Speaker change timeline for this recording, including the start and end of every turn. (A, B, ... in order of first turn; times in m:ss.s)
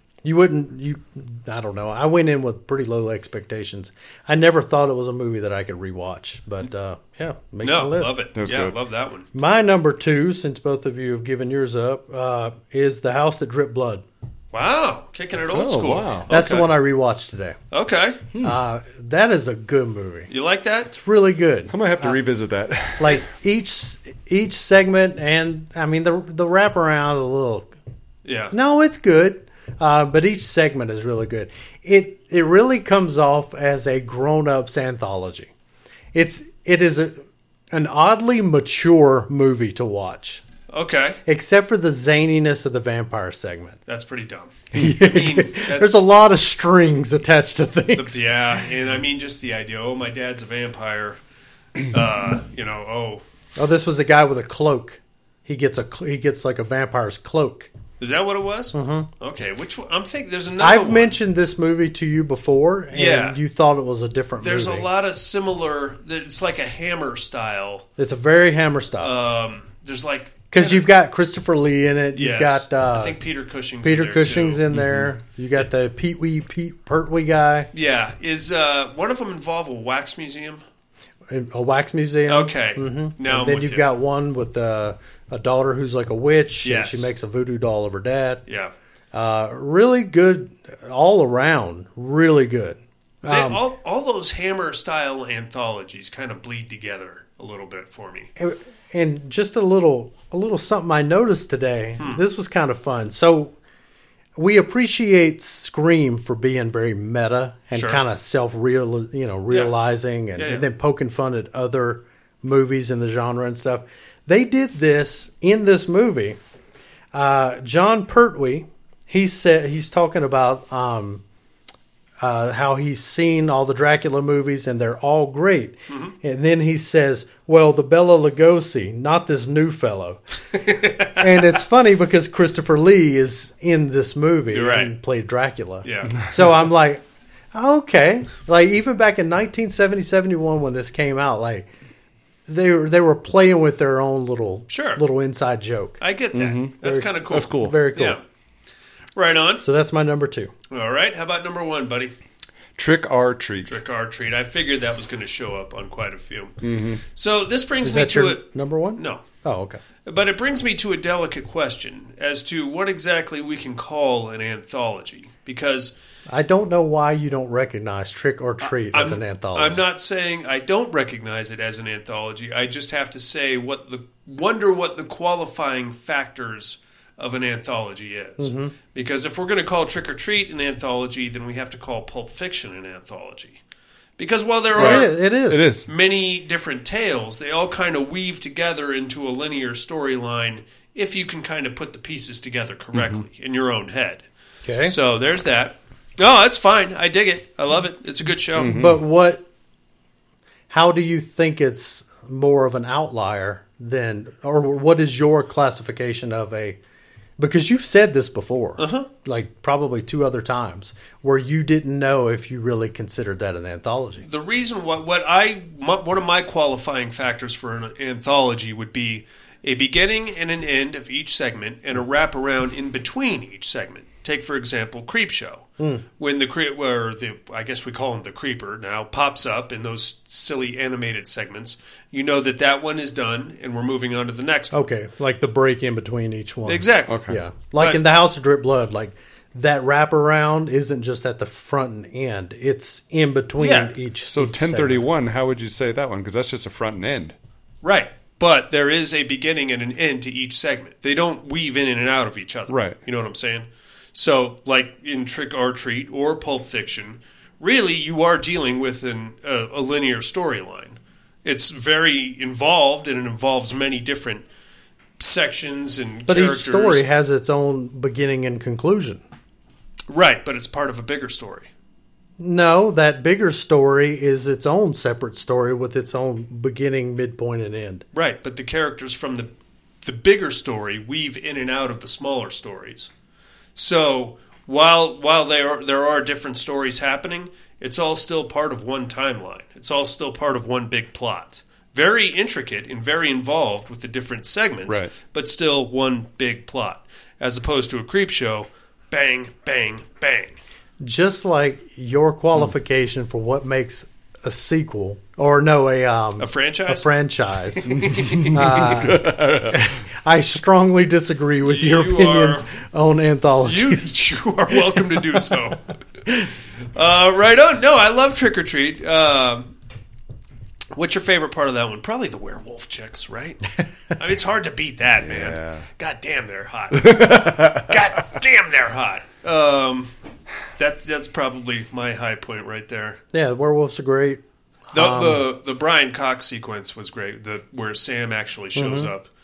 0:00.2-0:08.2 A
0:07.6-0:09.3 B
0:08.4-0:08.8 C
0:09.3-0:14.0 A
0:14.5-0:16.7 B
0:15.5-0:16.3 C
0:16.3-0:17.6 A
0:17.7-0:18.2 B
0:18.4-0:20.3 A
0:20.3-0:20.9 B
0:20.8-0:22.2 A
0:21.7-0:23.2 C
0:23.0-0:27.7 A
0:28.2-0:28.5 B
0:28.5-0:35.5 A
0:36.1-0:40.4 A
0:40.7-0:41.2 B
0:41.3-0:43.8 A
0:43.9-0:46.1 B
0:44.7-0:48.2 A
0:48.0-0:51.2 B
0:51.9-0:53.2 B
0:53.6-0:57.7 A
0:58.0-1:01.2 B
0:58.7-0:59.1 A
1:00.6-1:04.9 A
1:02.9-1:03.4 B
1:04.4-1:07.9 B
1:08.0-1:09.1 A
1:09.0-1:10.9 B
1:10.5-1:13.2 A
1:12.2-1:14.6 B
1:13.8-1:17.7 A
1:14.7-1:15.1 C
1:17.7-1:20.6 B
1:21.3-1:28.4 A
1:22.3-1:23.8 B
1:26.6-1:27.1 B
1:28.5-1:28.7 B
1:29.1-1:33.6 A
1:33.3-1:38.3 B
1:38.4-1:43.6 A
1:44.4-1:56.4 A
1:47.7-1:48.0 B
1:50.4-1:50.7 B
1:57.1-2:01.2 A
2:02.2-2:10.2 A
2:05.9-2:06.2 B
2:10.6-2:11.4 B
2:11.2-2:21.7 A
2:14.5-2:14.9 B
2:15.8-2:16.2 B
2:22.5-2:26.0 A
2:24.7-2:25.0 B
2:26.0-2:28.2 B
2:26.3-2:26.8 C
2:26.8-2:28.2 A
2:27.3-2:27.8 C
2:29.2-2:29.6 B
2:29.6-2:30.5 A
2:30.7-2:32.1 B
2:32.8-2:33.8 C
2:33.6-2:36.5 B
2:36.6-2:37.0 C
2:37.1-2:38.4 B
2:37.8-2:39.8 A
2:39.0-2:39.2 B
2:40.0-2:45.9 B
2:46.3-2:49.8 A
2:48.6-3:03.6 B
2:58.4-2:58.7 A
3:04.2-3:05.1 B
3:04.8-3:05.9 C
3:04.8-3:05.7 A
3:05.9-3:14.2 B
3:12.9-3:13.2 C
3:14.6-3:15.0 A
3:14.8-3:18.8 B
3:18.6-3:19.0 C
3:18.7-3:19.4 A
3:20.7-3:26.8 A
3:27.4-3:34.2 A
3:28.8-3:29.1 B
3:34.2-3:54.8 B
3:45.8-3:46.0 A
3:54.7-4:05.1 A
3:56.7-3:57.2 B
3:57.1-3:57.4 C
3:57.8-3:58.0 B
4:03.6-4:03.9 B
4:04.3-4:07.4 C
4:07.8-4:24.4 B
4:12.7-4:13.0 C
4:25.2-4:27.0 B
4:26.3-4:29.2 A
4:30.1-4:31.7 B
4:32.4-4:38.0 A
4:38.1-4:39.5 B
4:40.0-4:43.1 B
4:43.8-5:00.6 B
4:54.9-4:55.1 C
5:01.0-5:07.9 A
5:06.4-5:07.1 B
5:07.7-5:08.6 B
5:07.9-5:09.9 C
5:08.5-5:14.1 A
5:11.6-5:12.7 B
5:13.6-5:15.8 B
5:17.0-5:19.7 B
5:21.0-5:30.1 B
5:25.2-5:25.9 C
5:26.9-5:27.9 C
5:30.8-5:33.2 B
5:33.3-5:35.4 A
5:34.9-5:39.3 B
5:38.8-5:39.1 A